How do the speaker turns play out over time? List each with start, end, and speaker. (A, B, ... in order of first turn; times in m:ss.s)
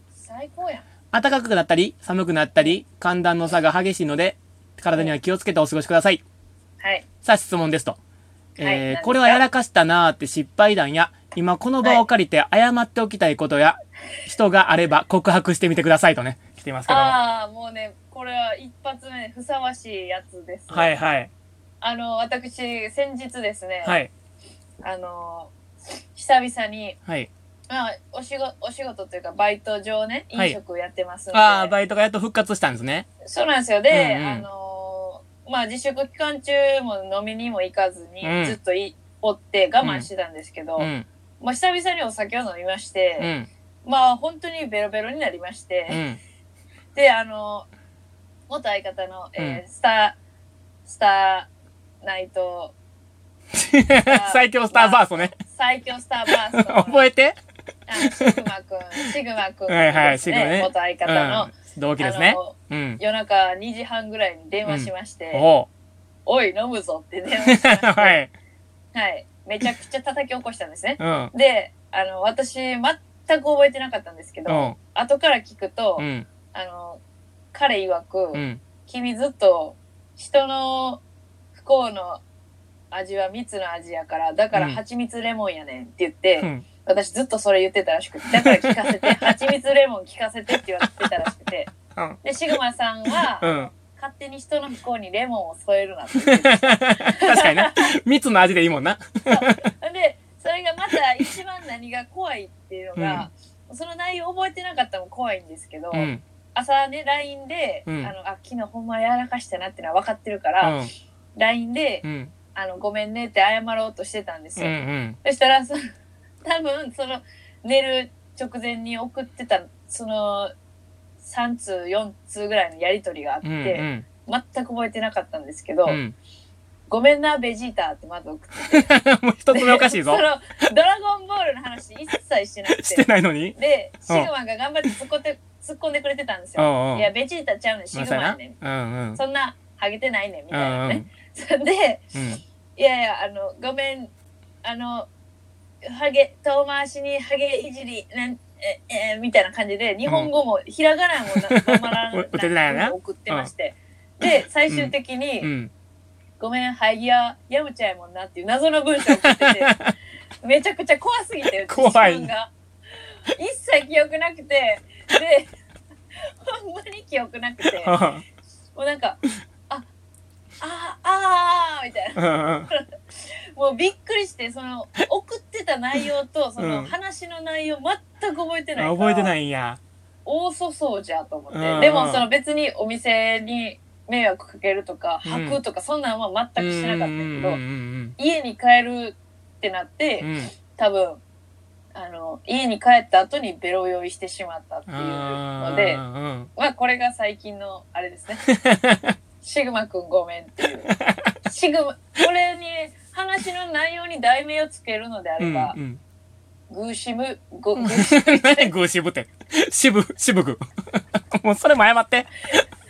0:00.2-0:00.8 A
0:01.1-0:06.2 B
0:07.2-0:08.0 B
0:08.6-0:17.2 B
0:08.6-0:09.4 A
0:16.9-0:20.9 A
0:20.7-0:21.3 B
0:21.8-0:24.0 A
0:23.8-0:24.1 B
0:24.8-0:25.5 A
0:26.1-0:27.0 A
0:27.7-0:31.7 A
0:31.3-0:33.0 B
0:33.2-0:43.3 A
0:33.9-0:34.4 B
0:38.2-0:38.6 B
0:39.8-0:40.1 B
0:40.8-0:41.0 B
0:43.2-0:43.5 B
0:43.8-0:46.0 A
0:45.9-0:46.2 B
0:46.9-0:47.7 A
0:48.5-0:50.2 A
0:50.8-0:51.5 A
0:52.0-0:52.7 A
0:53.5-0:55.3 B
0:54.0-0:57.1 A
0:56.3-0:57.4 B
0:57.9-1:05.5 A
0:58.0-0:58.4 B
0:59.7-1:03.0 B
1:04.6-1:05.7 B
1:06.2-1:08.2 A
1:07.4-1:08.3 B
1:08.9-1:17.0 A
1:11.0-1:11.3 B
1:14.5-1:14.8 B
1:16.0-1:16.3 B
1:17.5-1:21.0 A
1:18.3-1:18.6 B
1:21.5-1:22.2 A
1:22.9-1:31.7 A
1:24.5-1:24.8 B
1:26.4-1:26.6 B
1:28.4-1:29.3 B
1:31.9-1:32.2 B
1:32.2-1:37.9 A
1:33.4-1:33.7 B
1:36.2-1:39.6 B
1:39.3-1:50.8 A
1:43.0-1:43.3 B
1:45.9-1:46.2 B
1:47.9-1:48.1 B
1:50.6-1:50.9 B
1:51.4-1:55.8 A
1:52.0-1:52.3 B
1:54.6-1:55.2 B
1:56.4-2:00.5 A
2:01.2-2:06.0 A
2:03.4-2:04.0 B
2:05.8-2:06.1 B
2:06.9-2:08.9 A
2:08.7-2:10.2 B
2:09.5-2:18.6 A
2:12.7-2:13.6 B
2:16.6-2:17.1 B
2:17.9-2:19.2 B
2:19.2-2:22.1 A
2:20.5-2:21.1 B
2:22.1-2:22.4 B
2:22.8-2:24.1 A
2:24.6-2:25.1 A
2:25.8-2:35.5 A
2:31.5-2:33.5 B
2:34.2-2:35.7 B
2:36.4-2:39.8 A
2:39.3-2:39.9 B
2:40.4-2:45.5 A
2:41.7-2:42.3 B
2:46.1-2:48.0 A
2:47.6-2:48.2 B
2:48.7-2:49.8 A
2:50.6-2:59.3 A
2:52.2-2:52.7 B
2:56.6-2:56.9 B
2:58.8-2:59.8 B
3:00.2-3:07.6 A
3:01.5-3:02.3 B
3:05.2-3:05.6 B
3:06.6-3:08.2 B
3:08.2-3:11.2 A
3:10.2-3:10.5 B
3:11.9-3:16.0 A
3:14.9-3:16.5 B
3:16.6-3:18.4 A
3:18.5-3:19.2 B
3:19.4-3:20.9 A
3:20.9-3:21.3 B
3:21.4-3:25.8 A
3:25.4-3:26.0 B
3:26.7-3:28.7 A
3:27.8-3:32.6 B